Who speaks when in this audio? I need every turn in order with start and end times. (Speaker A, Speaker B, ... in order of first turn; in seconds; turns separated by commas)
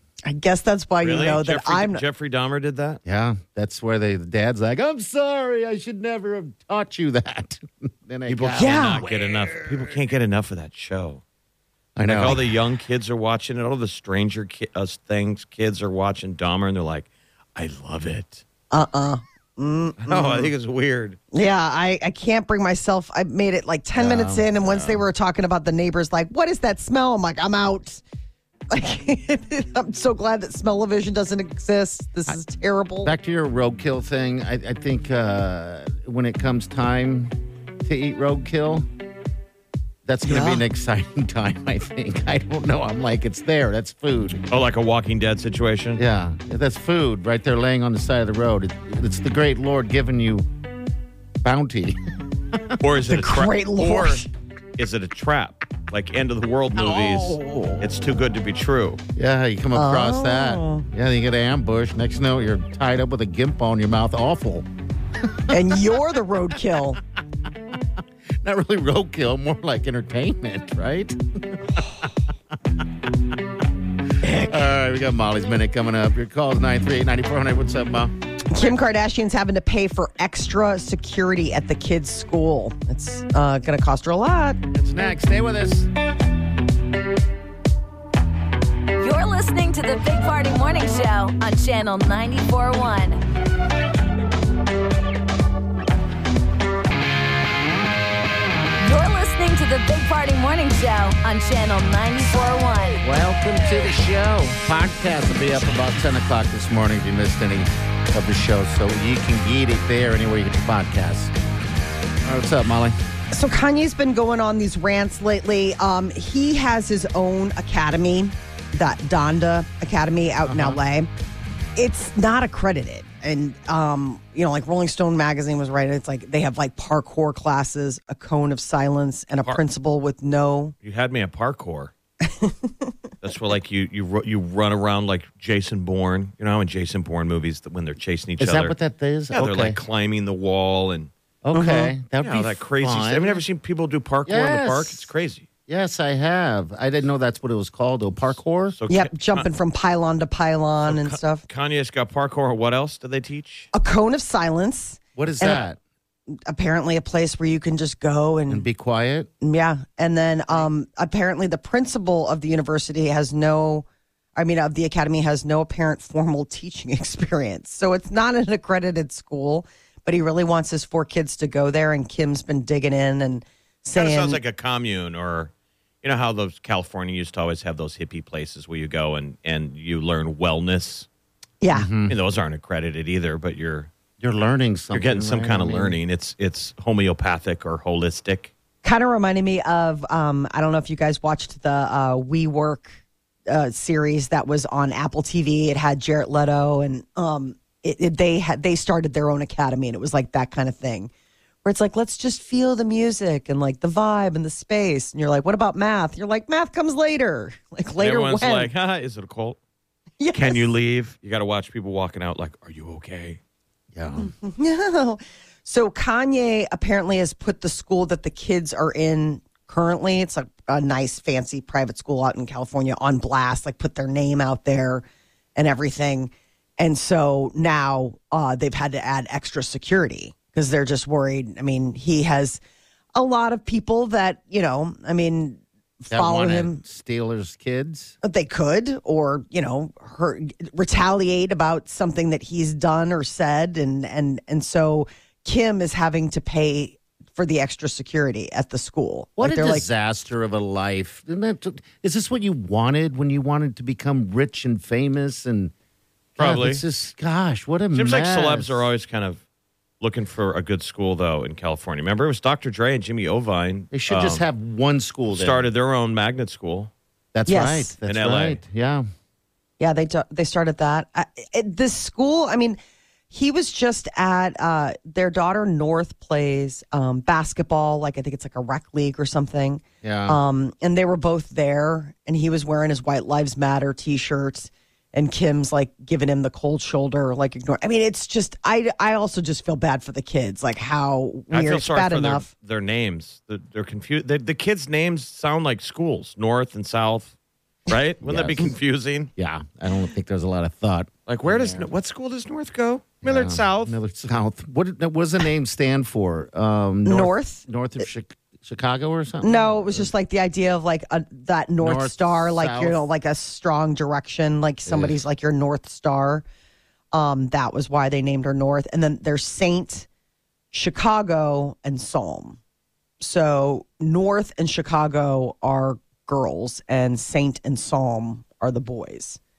Speaker A: 0.2-2.0, Speaker B: 1.0-3.0, Speaker C: 3.0-9.9, Speaker B: 8.3-11.2, Speaker A: 8.6-9.0, Speaker C: 11.9-12.5, Speaker B: 12.0-18.4, Speaker A: 18.7-20.5, Speaker B: 20.1-21.2, Speaker A: 21.3-28.0, Speaker C: 23.9-24.9, Speaker A: 28.7-33.1, Speaker C: 33.0-38.9, Speaker C: 40.0-44.4, Speaker A: 40.2-40.6, Speaker B: 44.5-46.0, Speaker C: 46.0-50.5, Speaker C: 51.4-52.0, Speaker B: 52.8-59.0, Speaker A: 53.1-54.3, Speaker C: 56.8-57.9, Speaker C: 59.1-64.7, Speaker A: 59.7-60.9, Speaker C: 65.2-65.6, Speaker A: 65.5-67.0, Speaker C: 68.4-71.8, Speaker A: 74.2-74.6, Speaker C: 74.2-78.1, Speaker A: 78.5-84.6, Speaker C: 84.7-85.9, Speaker D: 89.0-93.2, Speaker D: 98.8-103.0, Speaker C: 103.0-111.3, Speaker C: 112.2-113.0, Speaker A: 113.3-121.1, Speaker C: 120.4-120.8, Speaker A: 121.8-130.7, Speaker B: 130.8-131.9, Speaker A: 132.2-132.9, Speaker B: 133.2-138.7, Speaker C: 138.4-139.8, Speaker B: 139.3-141.1, Speaker C: 141.4-143.4, Speaker A: 141.5-141.9, Speaker B: 142.2-145.5, Speaker C: 144.2-145.1, Speaker C: 145.7-148.7, Speaker B: 148.7-149.4, Speaker A: 148.9-151.4, Speaker B: 150.9-153.7, Speaker A: 153.7-155.6, Speaker C: 155.2-155.8, Speaker A: 156.3-158.7, Speaker C: 158.5-159.3, Speaker A: 159.4-174.4, Speaker B: 173.9-175.5, Speaker B: 176.0-181.1, Speaker A: 181.6-181.9, Speaker C: 181.7-182.2, Speaker B: 182.1-183.9, Speaker C: 184.2-186.0, Speaker B: 184.9-188.5, Speaker A: 188.8-201.1, Speaker A: 201.6-208.7, Speaker B: 208.0-209.6, Speaker A: 210.2-210.6, Speaker B: 210.3-213.4, Speaker C: 213.9-214.3, Speaker A: 214.2-225.0, Speaker A: 225.6-232.6, Speaker A: 233.1-236.8, Speaker C: 236.1-238.2, Speaker A: 238.2-249.9, Speaker C: 249.4-255.7, Speaker B: 256.4-256.8, Speaker C: 256.4-258.9, Speaker B: 257.9-259.4, Speaker B: 260.0-264.4, Speaker C: 263.9-265.7, Speaker B: 265.3-266.9, Speaker C: 267.3-269.0, Speaker A: 267.5-267.9, Speaker B: 268.1-268.6, Speaker A: 269.8-272.8, Speaker A: 273.3-292.4, Speaker C: 280.0-280.4, Speaker B: 291.5-297.4, Speaker B: 297.9-299.3, Speaker C: 298.2-298.7, Speaker C: 299.4-301.9, Speaker B: 301.3-304.0, Speaker C: 303.2-310.1, Speaker A: 307.1-307.6, Speaker A: 309.4-316.4, Speaker C: 311.8-313.0, Speaker C: 314.9-315.2, Speaker A: 317.1-320.1, Speaker A: 320.7-322.6, Speaker A: 323.2-329.4